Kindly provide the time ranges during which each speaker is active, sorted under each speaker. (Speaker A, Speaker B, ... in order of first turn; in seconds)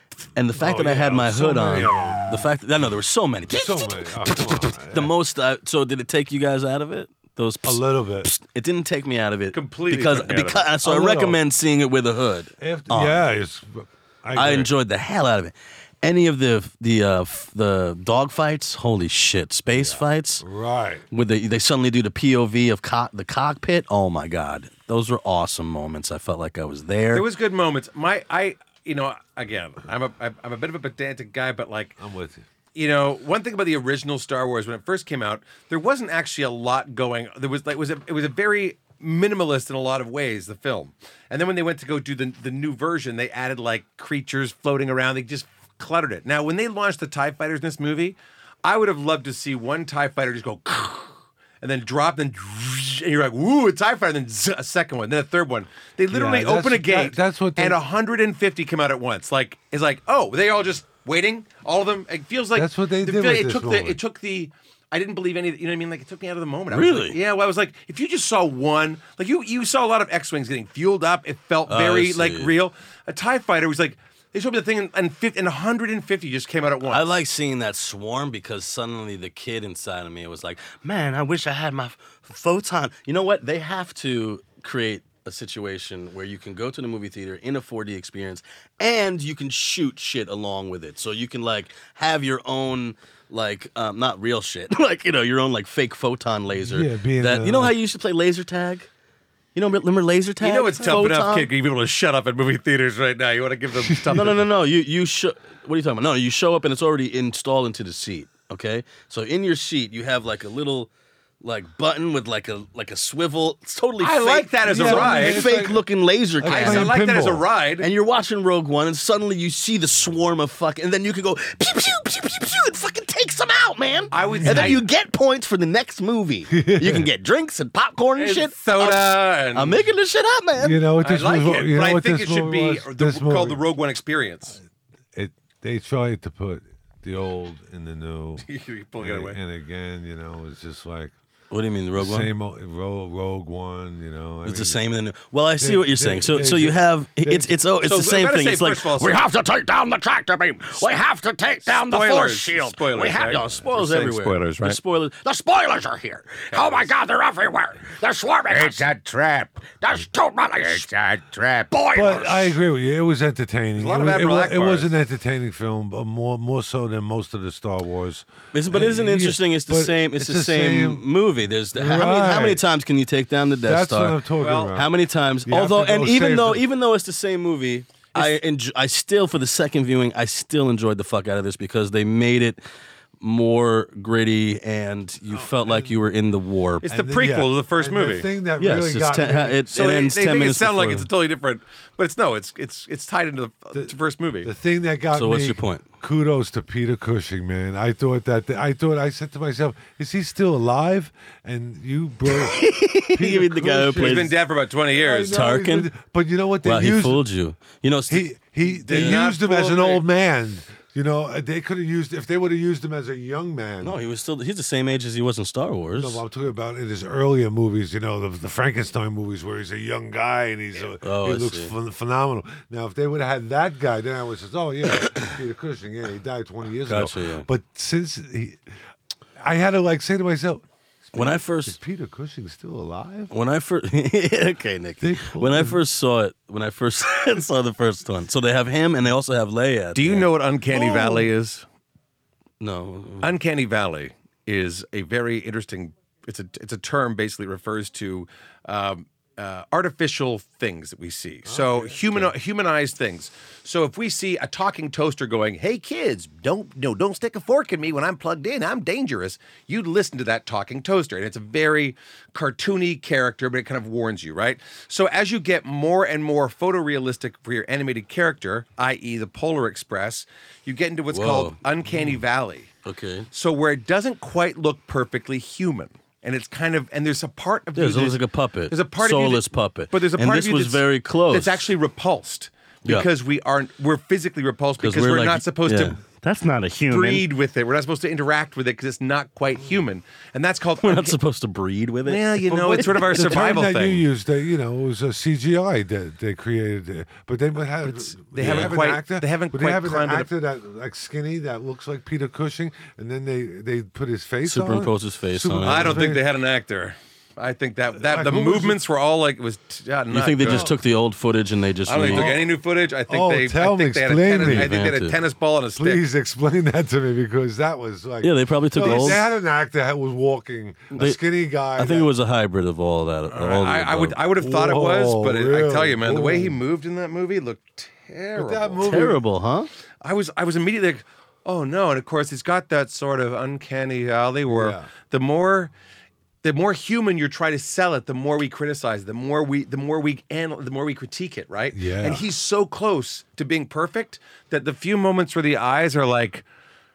Speaker A: 0.3-13.2, 14.3-20.4, 21.1-27.2, 66.7-67.2, 71.7-72.5, 76.9-98.9, 99.5-101.5, 104.1-110.9, 111.4-116.9, 117.8-130.8, 141.5-142.3, 144.4-158.9, 159.8-160.9, 161.7-162.5, 168.5-182.6, 183.2-186.9, 188.6-191.1, 195.1-195.8, 202.3-204.3, 205.3-205.9, 206.6-208.3, 208.9-209.2, 213.8-216.2, 221.0-221.7, 226.9-227.5, 231.1-231.8, 233.3-240.3, 242.6-243.3, 271.1-271.6, 272.8-273.3, 277.7-281.7, 284.8-287.3, 290.8-293.3, 298.4-298.7, 304.4-306.0, 310.1-312.3, 314.4-315.2, 318.2-319.2, 320.9-321.2, 321.7-324.2, 328.9-329.7
Speaker B: 0.5-2.5, 3.5-5.1, 7.6-8.3, 10.8-11.4, 12.6-14.7, 19.7-21.1, 32.0-32.4, 56.1-57.8, 62.5-64.0, 96.6-97.8, 103.8-104.3, 114.6-117.4, 124.3-124.8, 126.5-127.1, 130.6-133.6, 135.1-138.5, 139.0-141.1, 141.9-144.8, 145.6-147.5, 161.9-171.1, 171.7-172.7, 173.6-174.9, 175.4-176.7, 185.3-186.0, 186.8-189.6, 193.7-204.3, 204.9-207.2, 208.1-214.0, 215.9-228.6, 229.4-233.3, 235.0-235.8, 240.7-241.2, 251.4-252.3, 292.8-306.3, 308.0-308.8, 310.4-310.7, 312.1-314.8, 315.8-322.1, 324.4-326.6, 328.3-329.2, 334.5-334.9, 341.7-342.2
Speaker C: 9.5-10.7, 27.1-31.9, 32.7-77.1, 100.4-104.4, 114.0-115.6, 116.5-117.9, 124.1-124.8, 128.2-129.8, 131.0-134.6, 138.4-139.4, 147.8-149.2, 151.7-154.8, 156.5-156.9, 163.8-164.9, 174.4-174.8, 186.8-188.3, 189.7-194.5, 204.0-205.4, 208.7-210.0, 239.9-241.6, 243.2-272.7, 273.3-286.0, 286.9-291.2, 292.1-294.0, 297.8-300.3, 305.6-310.7, 311.9-316.0, 318.8-319.2, 323.3-328.9, 330.0-335.7, 336.4-346.4
Speaker D: 158.5-162.2